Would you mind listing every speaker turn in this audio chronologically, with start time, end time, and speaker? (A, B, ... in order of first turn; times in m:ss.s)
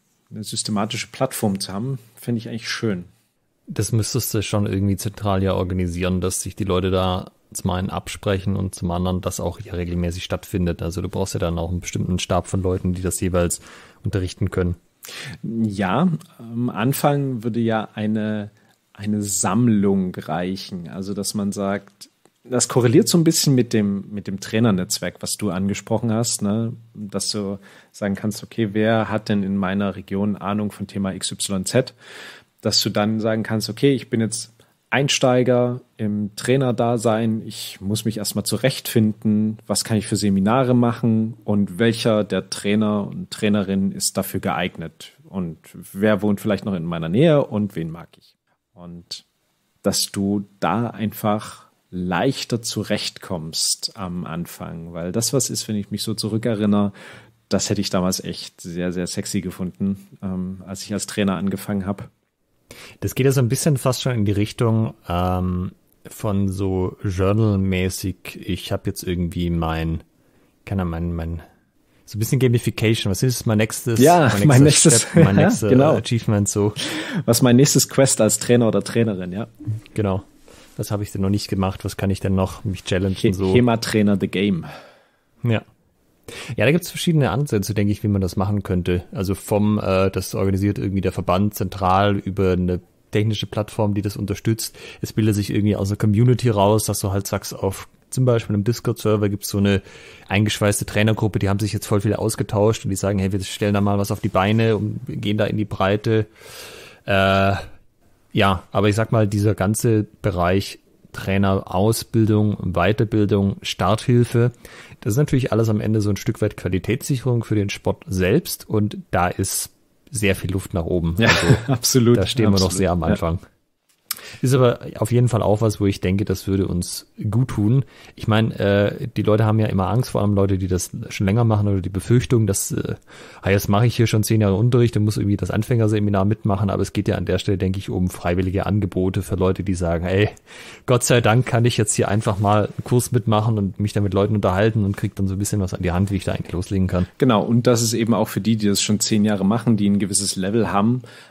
0:00.3-0:03.1 A
0:03.7-0:14.8 B
0:15.4-0:31.9 A
0:32.6-0:49.2 A
0:49.8-0:56.9 A
0:57.5-1:02.1 A
1:03.0-1:10.0 B
1:10.6-1:11.4 B
1:12.1-1:16.8 B
1:14.0-1:16.0 A
1:16.8-1:19.5 A
1:19.9-1:23.6 B
1:23.2-1:24.7 A
1:26.3-1:46.3 B
1:47.0-1:47.6 B
1:48.3-2:03.4 B
2:01.2-2:03.2 A
2:04.4-2:20.3 B
2:20.9-2:27.1 B
2:27.2-2:31.0 A